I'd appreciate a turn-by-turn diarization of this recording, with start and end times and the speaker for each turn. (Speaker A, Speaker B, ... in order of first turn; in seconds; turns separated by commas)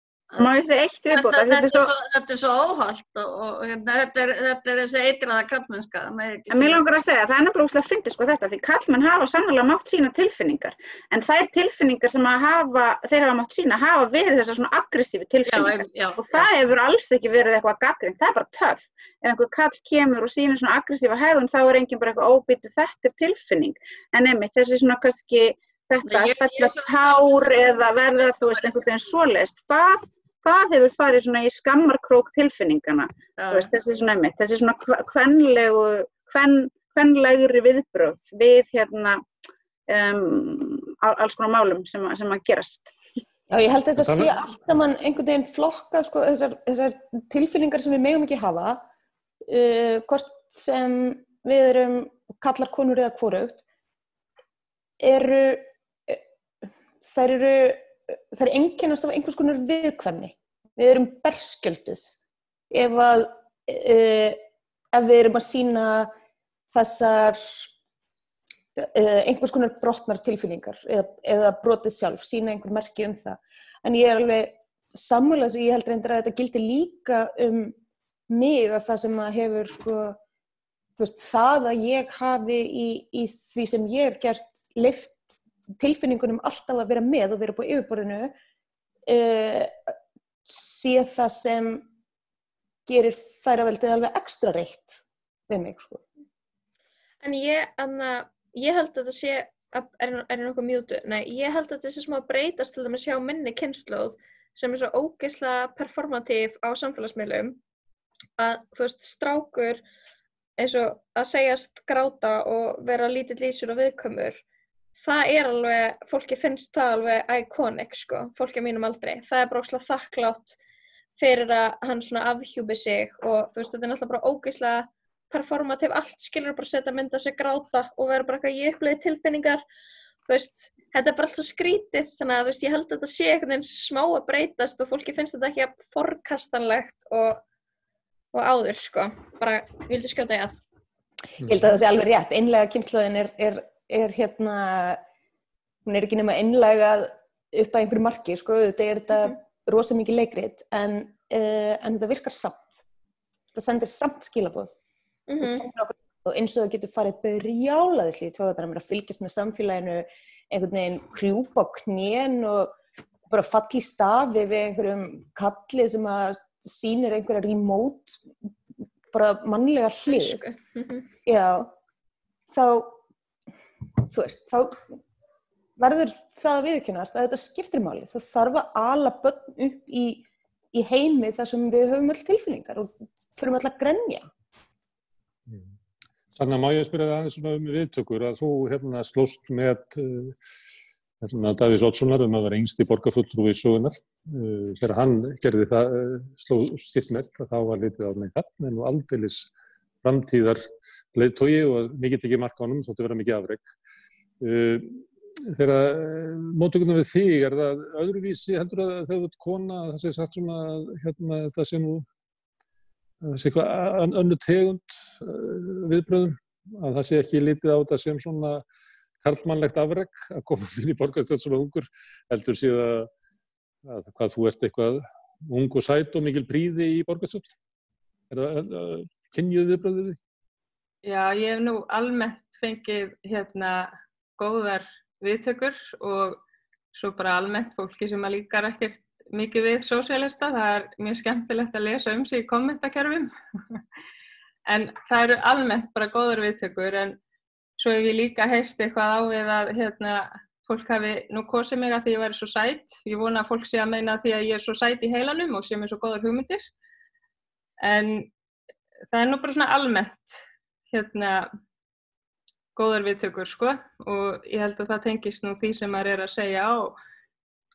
Speaker A: 0.4-1.9, Speaker B: 1.1-6.8, Speaker A: 6.5-39.2, Speaker B: 15.4-16.4, Speaker B: 26.1-27.7, Speaker B: 28.3-28.8, Speaker B: 33.4-33.7, Speaker A: 39.9-42.9, Speaker C: 43.5-48.8, Speaker D: 44.0-44.4, Speaker C: 49.5-53.6, Speaker C: 55.0-56.2, Speaker C: 57.0-62.2, Speaker C: 62.7-64.4, Speaker C: 64.9-66.1, Speaker C: 66.7-67.7, Speaker C: 68.8-77.8, Speaker C: 78.3-80.2, Speaker C: 81.0-88.3, Speaker C: 89.1-89.9, Speaker C: 90.5-91.9, Speaker C: 92.9-96.0, Speaker E: 97.2-107.6, Speaker E: 108.4-109.8, Speaker E: 110.6-114.4, Speaker E: 115.0-120.6, Speaker E: 121.2-129.6, Speaker E: 130.3-137.4, Speaker E: 138.3-140.6, Speaker C: 141.4-145.0, Speaker C: 145.8-152.8, Speaker C: 153.5-154.8, Speaker E: 155.3-155.6, Speaker C: 155.4-162.8, Speaker C: 163.3-168.2, Speaker C: 169.1-170.5, Speaker E: 170.1-171.1, Speaker C: 171.2-171.7, Speaker C: 172.5-173.0, Speaker C: 174.1-174.8, Speaker C: 175.8-184.3, Speaker D: 185.5-185.7, Speaker D: 186.3-190.4, Speaker D: 191.2-199.5, Speaker D: 200.0-203.7, Speaker D: 204.4-212.1, Speaker D: 213.2-218.6, Speaker D: 219.2-223.1, Speaker D: 223.8-227.5, Speaker D: 228.3-230.2, Speaker F: 231.0-236.4, Speaker F: 236.9-243.8, Speaker F: 244.7-247.2, Speaker F: 247.8-256.7, Speaker F: 257.8-258.3, Speaker F: 259.1-261.5, Speaker F: 262.7-266.9